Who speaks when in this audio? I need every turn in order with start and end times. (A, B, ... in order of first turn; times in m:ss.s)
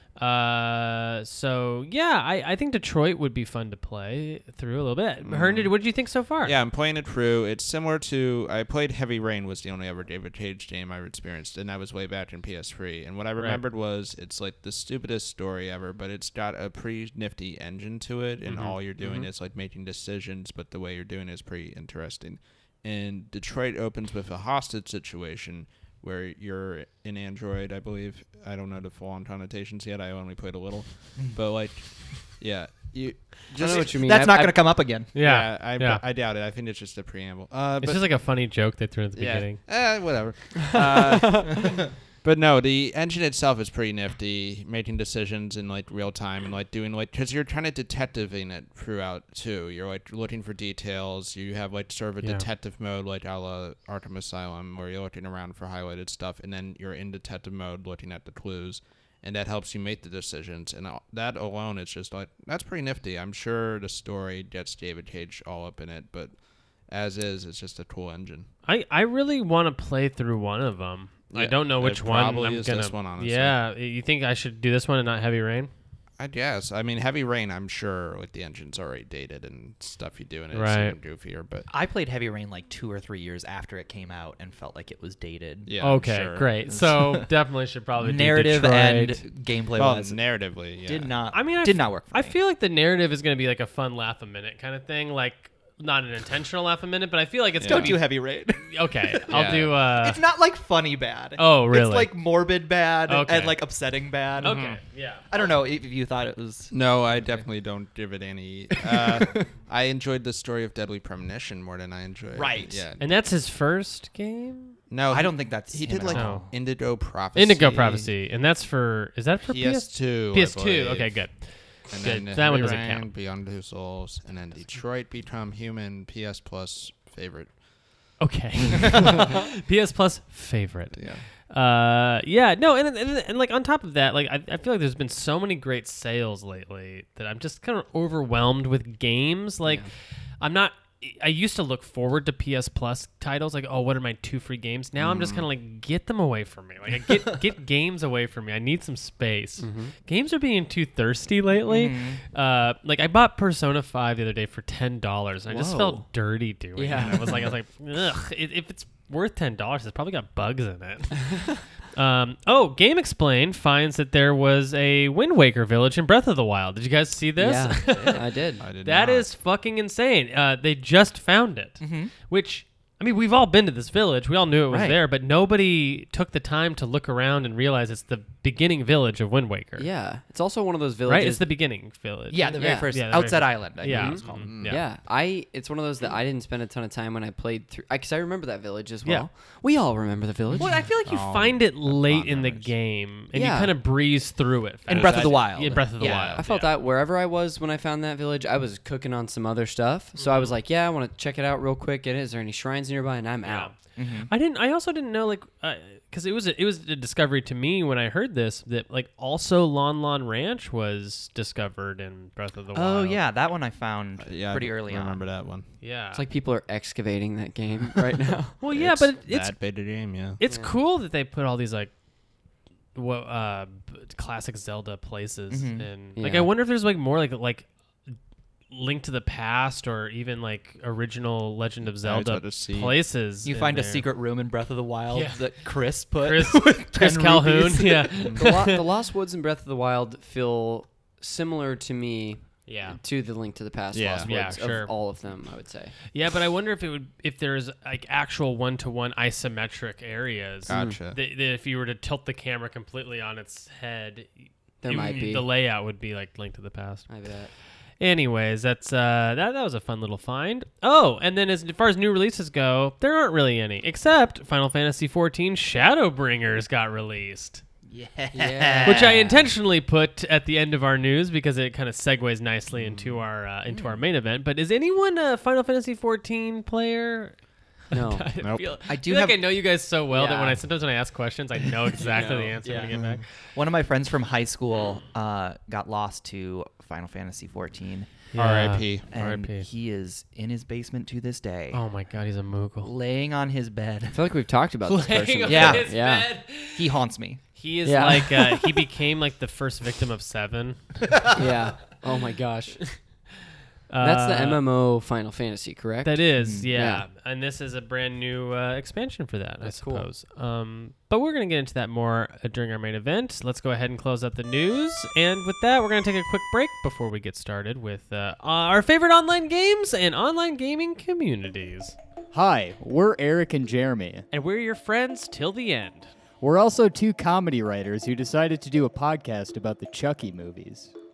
0:00.2-0:06.6 A
0:05.2-0:05.7 B
0:06.4-0:34.0 B
0:18.5-0:18.8 A
0:19.0-0:19.3 C
0:33.6-0:34.6 C
0:33.6-0:35.1 D
0:35.1-0:36.0 A
0:35.2-0:38.0 B
0:37.8-0:39.6 A
0:39.2-1:06.4 B
0:40.9-0:41.5 C
0:52.2-0:52.5 A
1:06.9-1:08.5 B
1:08.7-1:15.7 A
1:11.3-1:13.6 B
1:16.2-1:21.7 B
1:20.5-1:21.0 A
1:21.7-1:25.7 D
1:25.7-1:26.6 B
1:25.8-1:29.2 A
1:26.7-1:27.3 D
1:28.0-1:32.4 D
1:29.8-1:31.1 B
1:31.3-1:40.2 A
1:37.6-1:38.0 B
1:37.6-1:44.8 D
1:39.3-1:39.7 B
1:41.4-1:42.1 A
1:43.1-1:43.6 A
1:44.4-1:44.8 B
1:44.4-1:45.2 A
1:45.3-1:47.4 D
1:46.7-1:53.0 B
1:48.8-1:49.5 D
1:52.4-1:52.9 D
1:53.0-1:54.8 A
1:54.9-1:58.1 B
1:55.1-1:56.5 D
1:56.1-1:56.5 A
1:57.4-2:03.1 A
1:59.5-2:01.2 B
2:01.9-2:07.6 B
2:08.2-2:19.9 A
2:10.9-2:11.3 B
2:19.6-2:19.9 C
2:20.4-2:59.9 A
2:25.0-2:25.5 B
2:29.6-2:29.9 C
2:31.7-2:32.2 D
2:35.5-2:36.1 C
2:36.8-2:37.4 C
2:36.9-2:37.5 B
2:47.4-2:48.6 C
2:48.6-2:49.3 B
2:51.8-2:52.1 D
2:54.7-2:55.0 D
2:59.8-3:01.4 C
3:01.1-3:04.8 A
3:02.3-3:04.5 D
3:02.6-3:02.9 C
3:03.9-3:10.7 C
3:04.3-3:04.8 B
3:10.6-3:16.8 A
3:11.0-3:12.7 B
3:13.3-3:13.8 C
3:14.9-3:16.4 D
3:14.9-3:15.5 B
3:16.0-3:16.4 B
3:16.3-3:23.7 C
3:20.2-3:20.6 A
3:23.4-3:23.8 A
3:24.0-3:24.3 D
3:24.3-3:33.2 A
3:32.8-3:35.2 D
3:34.2-3:35.7 B
3:35.8-3:36.2 A
3:36.1-3:38.6 C
3:38.6-3:39.6 A
3:38.7-3:40.4 B
3:40.4-3:41.9 A
3:40.4-3:40.7 C
3:43.0-3:47.7 A
3:45.5-3:45.9 D
3:46.2-3:46.5 C
3:48.7-3:54.1 A
3:52.0-3:53.0 B
3:53.4-3:58.3 D
3:55.1-3:55.5 A
3:56.2-3:58.8 A
3:58.3-4:05.9 C
4:02.7-4:03.0 A
4:03.9-4:04.3 B
4:04.2-4:04.9 A
4:06.1-4:17.1 A
4:10.7-4:11.2 B
4:10.7-4:11.0 C
4:14.8-4:15.5 C
4:15.0-4:15.4 D
4:17.1-4:17.5 C
4:18.0-4:27.6 A
4:27.9-4:29.2 D
4:28.3-4:29.5 C
4:28.8-4:37.4 A
4:32.8-4:33.1 B
4:33.7-4:34.0 D
4:37.9-4:43.2 A
4:37.9-4:38.3 C
4:38.4-4:38.7 B
4:38.9-4:39.5 D
4:40.1-4:40.6 C
4:42.0-4:43.0 C
4:42.9-4:43.2 B
4:43.6-4:48.2 D
4:48.3-4:49.7 A
4:48.4-4:49.1 B
4:49.1-4:51.8 D
4:51.7-4:52.9 A
4:52.8-4:54.2 D
4:54.1-4:56.3 C
4:54.8-4:56.9 A
4:55.5-4:55.9 D
4:56.6-4:57.4 D
4:57.6-5:01.1 A
4:57.8-4:58.8 C
5:01.3-5:02.8 C
5:03.9-5:04.6 A
5:04.0-5:07.0 C
5:06.0-5:22.0 A
5:06.4-5:06.7 D
5:09.6-5:10.1 C
5:22.3-5:24.2 E
5:24.3-5:26.1 A
5:26.4-5:30.9 E